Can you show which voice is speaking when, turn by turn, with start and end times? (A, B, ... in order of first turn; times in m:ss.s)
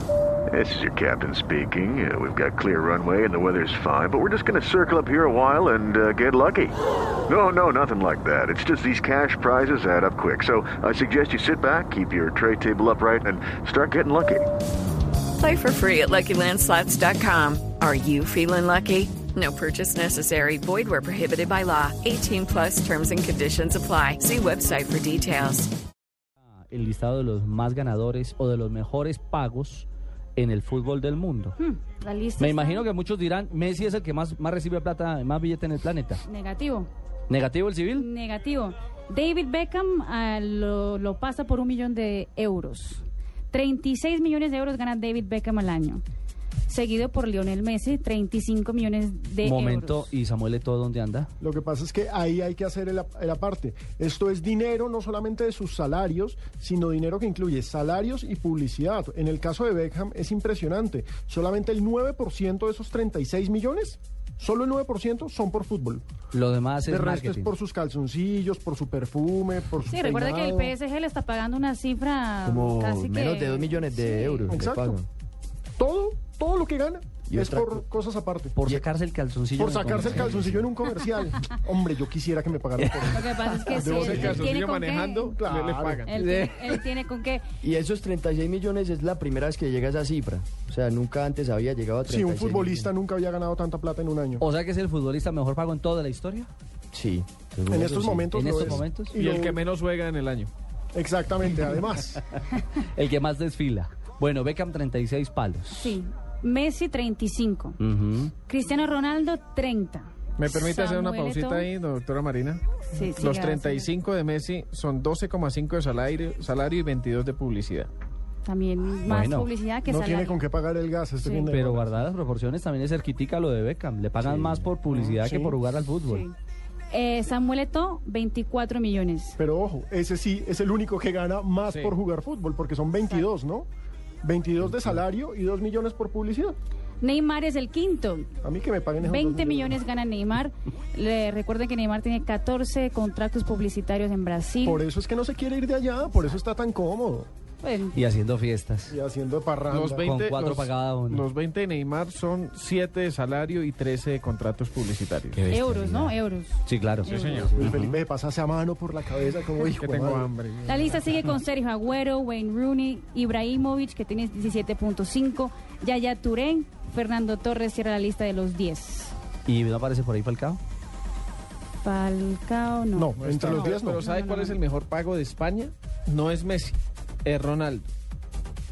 0:00.5-0:14.5 A
0:15.4-0:25.7 B
0:26.5-0:31.6 C
0:31.6-0:32.9 D
0:32.4-0:36.2 C
0:36.2-0:36.9 D
0:37.3-0:38.1 C
0:37.9-0:46.0 D
0:46.7-0:50.1 D
0:49.4-0:51.3 C
0:51.4-1:06.0 E
1:06.3-1:07.5 C
1:06.9-1:10.7 E
1:09.9-1:14.4 D
1:12.4-1:15.1 F
1:14.5-1:15.0 E
1:15.8-1:18.6 E
1:17.3-1:17.8 F
1:18.6-1:20.6 C
1:19.5-1:24.5 E
1:23.1-1:25.4 D
1:23.7-1:26.2 G
1:25.4-1:26.1 E
1:26.1-1:27.4 D
1:26.1-1:26.8 C
1:27.6-1:32.9 F
1:32.1-1:34.4 E
1:34.4-1:36.5 C
1:36.9-1:38.1 F
1:37.7-1:39.6 E
1:37.7-1:39.1 C
1:39.1-1:40.5 G
1:40.9-1:42.2 E
1:42.8-1:46.0 C
1:45.7-1:47.8 D
1:47.8-1:48.3 C
1:48.5-1:51.7 D
1:50.4-1:57.9 G
1:52.9-1:53.9 D
1:58.4-2:00.4 D
1:59.1-1:59.5 C
1:59.9-2:02.0 E
2:01.2-2:01.5 D
2:01.5-2:06.2 C
2:04.2-2:05.6 E
2:06.0-2:06.3 D
2:06.9-2:09.4 D
2:09.4-2:13.7 E
2:11.6-2:12.0 G
2:13.0-2:13.3 D
2:14.2-2:16.6 E
2:14.6-2:15.0 C
2:17.0-2:18.3 D
2:18.4-2:19.8 E
2:19.0-2:24.8 D
2:24.6-2:27.3 E
2:27.6-2:28.0 D
2:27.9-2:28.9 C
2:28.9-2:30.1 E
2:29.7-2:35.5 G
2:30.0-2:31.2 C
2:35.3-2:38.0 C
2:35.5-2:37.4 D
2:37.0-2:37.5 G
2:37.4-2:40.3 E
2:39.6-2:41.3 G
2:40.7-2:49.1 D
2:49.4-2:50.6 C
2:51.8-2:54.6 D
2:52.9-2:54.0 E
2:53.1-2:57.9 G